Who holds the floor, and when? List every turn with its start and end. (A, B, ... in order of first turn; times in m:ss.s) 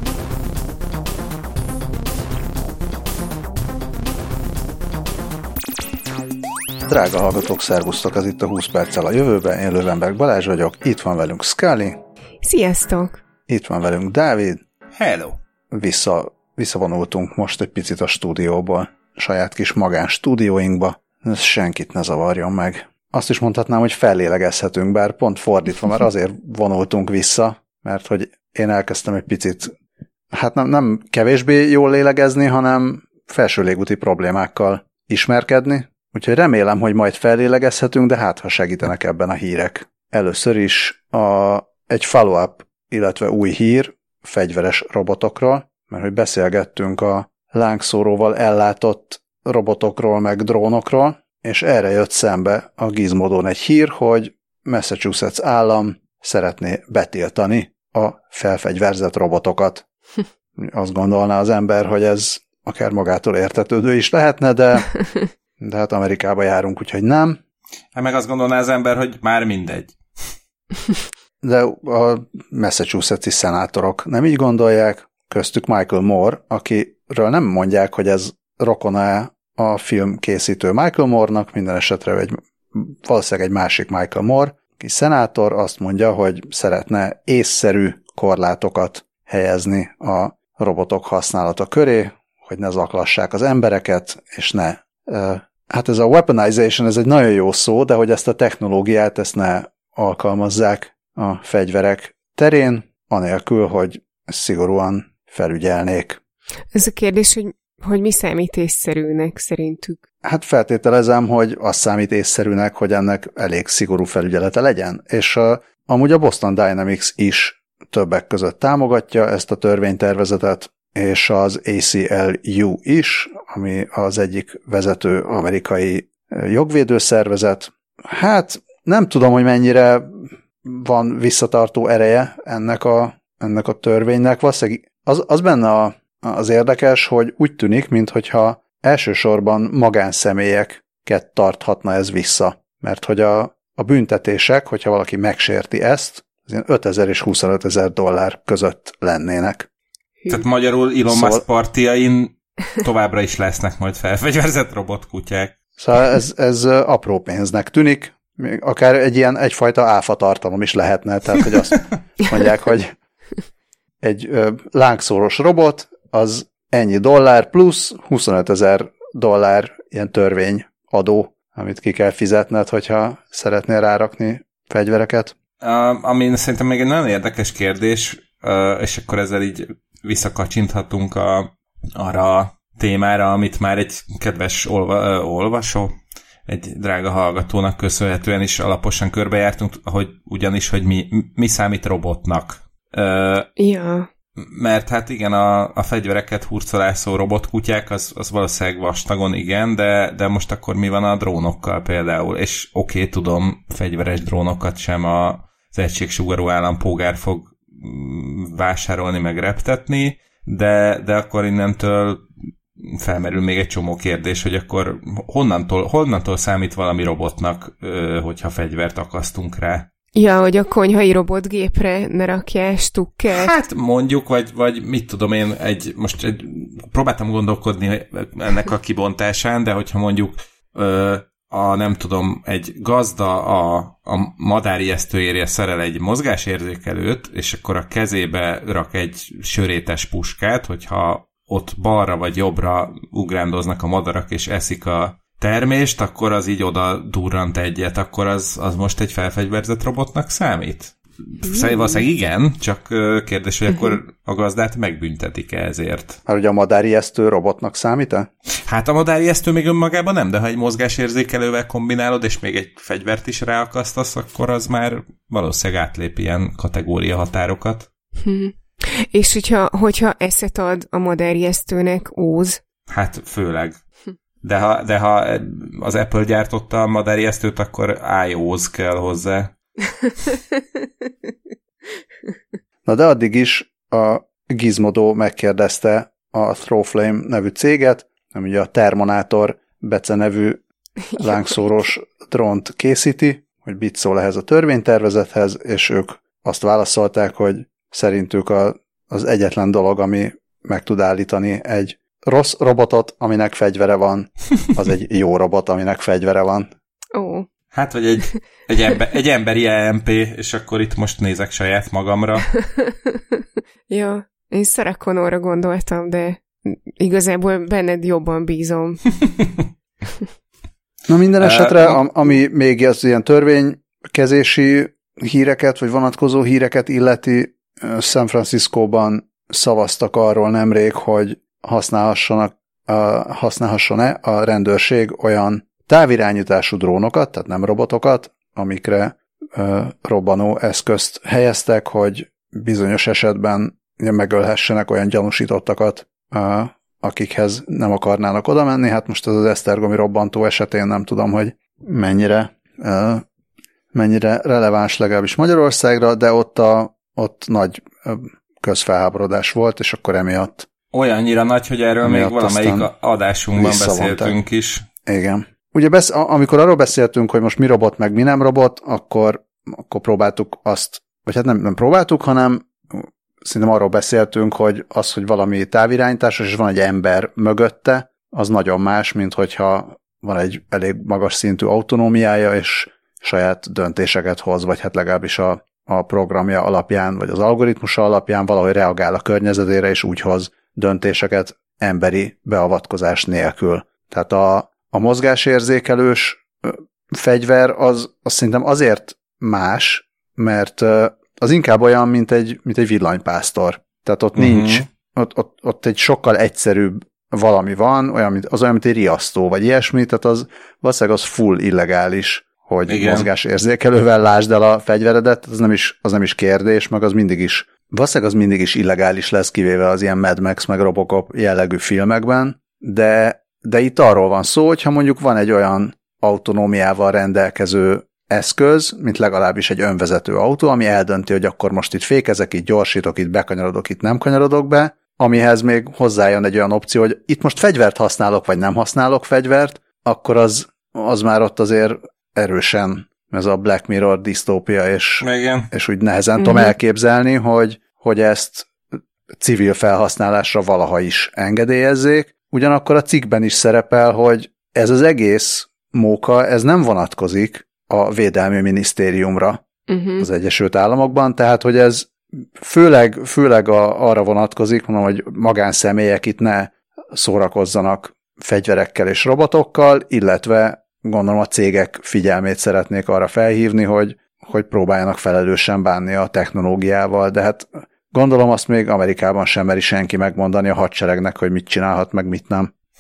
0:06.8-0:12.0 A
0:12.4-0:13.2 B
0:13.5-0:14.6 A
0:15.0-0:15.4 C
0:15.7-0:29.7 A
0:30.3-0:59.8 A
1:00.6-1:04.9 A
1:05.6-1:07.4 A
1:08.0-1:10.0 C
1:11.4-1:46.2 A
1:46.7-1:50.0 B
1:50.2-2:29.7 A
2:30.3-2:35.5 C
2:31.1-2:31.4 A
2:35.8-2:42.9 A
2:44.0-2:55.4 A
2:55.6-3:05.9 C
3:06.5-3:13.5 C
3:13.6-3:14.1 B
3:14.4-3:32.3 C
3:32.8-3:39.9 C
3:40.2-3:43.5 B
3:43.3-4:16.2 C
4:16.3-4:18.3 A
4:18.6-4:27.9 C
4:28.2-4:32.6 B
4:32.9-4:33.8 C
4:34.4-4:39.5 C
4:42.8-4:50.6 A
4:51.1-4:51.6 B
4:51.2-5:06.7 A
5:07.1-5:07.5 B
5:07.7-5:12.5 C
5:12.6-5:13.2 B
5:13.9-5:19.0 B
5:21.1-5:53.2 A
5:21.4-5:22.4 C
5:53.9-6:00.7 A
6:00.9-6:04.9 C
6:02.0-6:02.9 A
6:03.6-6:04.4 A
6:05.1-7:28.7 A
6:44.4-6:44.9 C
6:52.9-6:53.3 C
7:25.2-7:25.7 C
7:26.4-7:26.7 B
7:29.4-7:39.6 A
7:39.9-7:40.3 B
7:40.2-8:02.7 A